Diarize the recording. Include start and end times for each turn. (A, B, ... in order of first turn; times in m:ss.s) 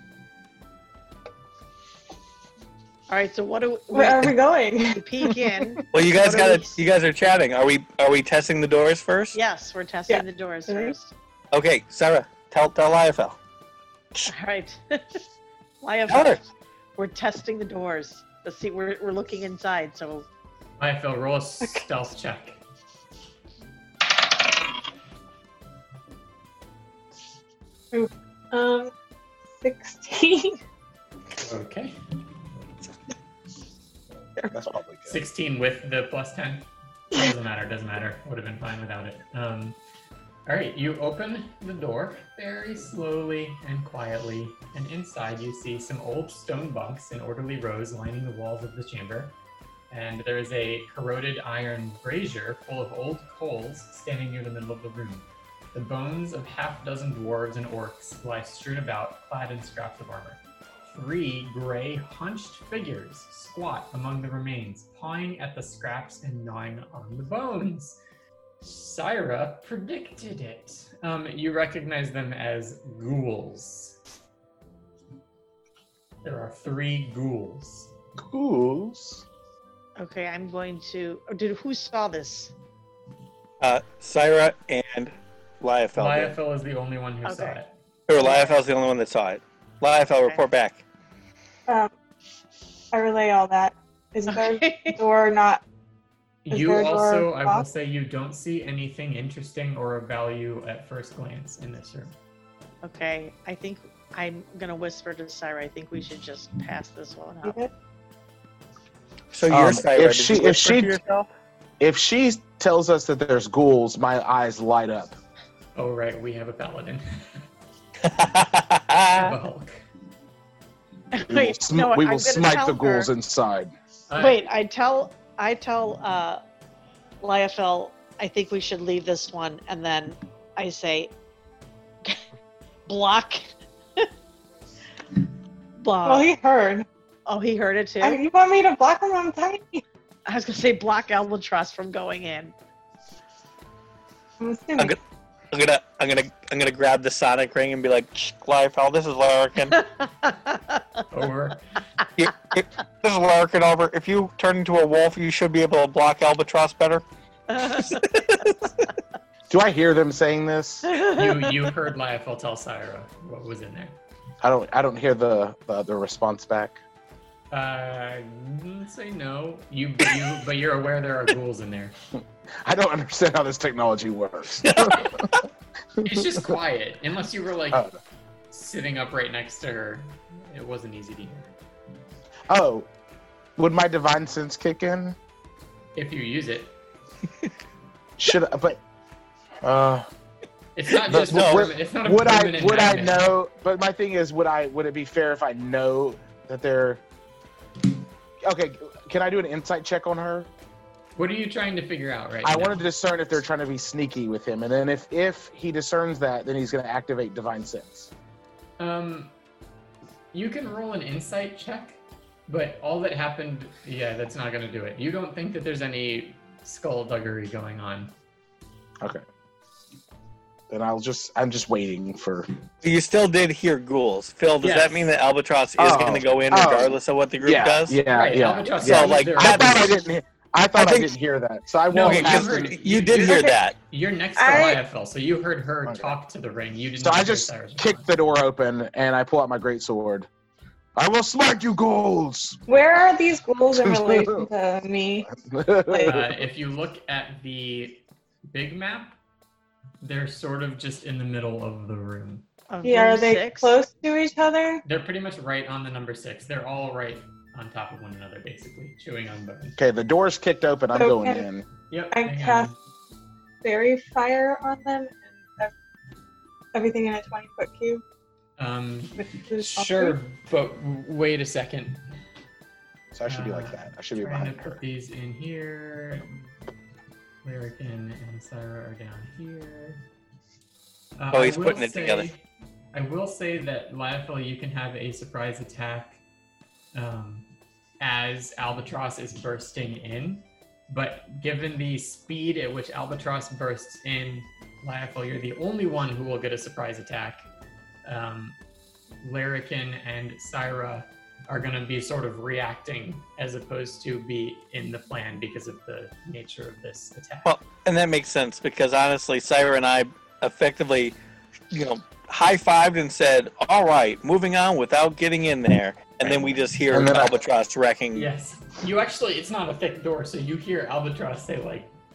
0:03.1-0:04.4 A
0:03.9-0:05.5 B
0:04.9-0:06.8 A
0:05.9-0:09.4 C
0:09.3-0:11.1 A
0:10.1-0:10.9 B
0:11.5-0:13.4 C
0:14.2-0:15.2 A
0:15.8-0:16.4 A
0:16.1-0:16.4 C
0:17.0-0:20.3 A
0:20.8-0:22.6 D
0:27.9-0:28.9 B
0:29.6-0:30.6 B
0:31.4-0:32.0 D
0:34.5-0:35.2 E
0:35.1-0:39.8 D
0:40.5-0:49.3 D
0:49.9-1:08.0 D
1:08.6-1:14.0 D
1:16.2-1:17.9 D
1:18.2-1:19.2 E
1:20.0-1:22.5 A
1:23.6-1:26.4 C
1:26.0-1:27.7 D
1:27.2-1:27.6 A
1:28.1-1:30.8 C
1:28.2-1:28.6 A
1:32.9-1:35.6 B
1:34.3-1:35.0 A
1:36.4-1:42.2 D
1:36.5-1:37.6 B
1:42.8-1:47.6 A
1:47.4-1:47.7 B
1:49.3-1:51.3 C
1:49.5-1:51.0 E
1:51.8-1:55.2 E
1:55.7-1:57.4 D
1:58.0-1:59.3 C
1:59.1-1:59.8 D
2:01.1-2:03.1 A
2:01.3-2:03.7 E
2:04.1-2:04.5 D
2:04.2-2:06.4 A
2:07.2-2:11.1 A
2:12.8-2:14.1 A
2:15.8-2:16.3 A
2:16.0-2:16.8 B
2:17.2-2:18.2 A
2:18.0-2:19.8 B
2:20.3-2:22.5 A
2:24.4-2:24.9 B
2:25.5-2:29.8 C
2:29.7-2:30.8 A
2:31.1-2:31.6 D
2:32.2-2:37.0 C
2:37.5-2:38.0 A
2:37.6-2:38.7 C
2:39.5-2:40.9 E
2:40.8-2:41.7 A
2:41.1-2:44.0 D
2:44.4-2:46.8 E
2:47.5-2:51.9 D
2:52.6-2:55.3 E
2:54.6-2:55.4 C
2:56.0-2:56.5 E
2:56.0-2:57.9 D
2:58.5-3:01.5 D
3:02.5-3:02.9 E
3:03.6-3:05.2 E
3:06.0-3:06.7 D
3:08.2-3:08.8 E
3:09.6-3:10.1 E
3:10.8-3:13.3 D
3:11.1-3:17.0 E
3:11.1-3:11.7 C
3:18.4-3:20.5 E
3:21.2-3:22.8 D
3:22.4-3:28.1 E
3:28.8-3:29.3 D
3:30.3-3:38.1 D
3:40.7-3:42.5 E
3:42.8-3:48.0 C
3:44.6-3:45.1 D
3:45.8-3:52.8 E
3:48.1-3:49.9 D
3:48.8-3:49.9 C
3:50.8-3:51.1 C
3:51.9-3:58.1 D
3:52.0-3:53.7 C
3:53.2-3:53.5 B
3:54.4-3:54.8 B
3:55.8-3:56.2 E
3:57.0-4:00.3 E
4:01.0-4:02.6 E
4:02.7-4:05.3 B
4:03.7-4:04.5 E
4:05.3-4:06.4 E
4:05.9-4:06.2 B
4:06.0-4:09.2 D
4:10.0-4:12.4 D
4:12.7-4:13.8 A
4:12.8-4:14.8 B
4:14.8-4:19.8 D
4:19.8-4:21.6 E
4:20.9-4:21.4 B
4:21.9-4:22.8 D
4:22.1-4:22.7 B
4:23.6-4:25.7 B
4:26.7-4:28.0 B
4:28.6-4:32.0 D
4:29.2-4:30.2 B
4:33.1-4:34.8 E
4:33.3-4:36.5 D
4:37.4-4:40.0 D
4:41.2-4:46.2 D
4:41.3-4:42.3 C
4:46.9-4:47.5 D
4:48.0-4:57.4 D
4:58.0-4:58.6 D
4:59.2-5:07.6 D
5:07.4-5:11.2 C
5:11.7-5:18.3 C
5:16.9-5:17.3 E
5:18.1-5:21.9 D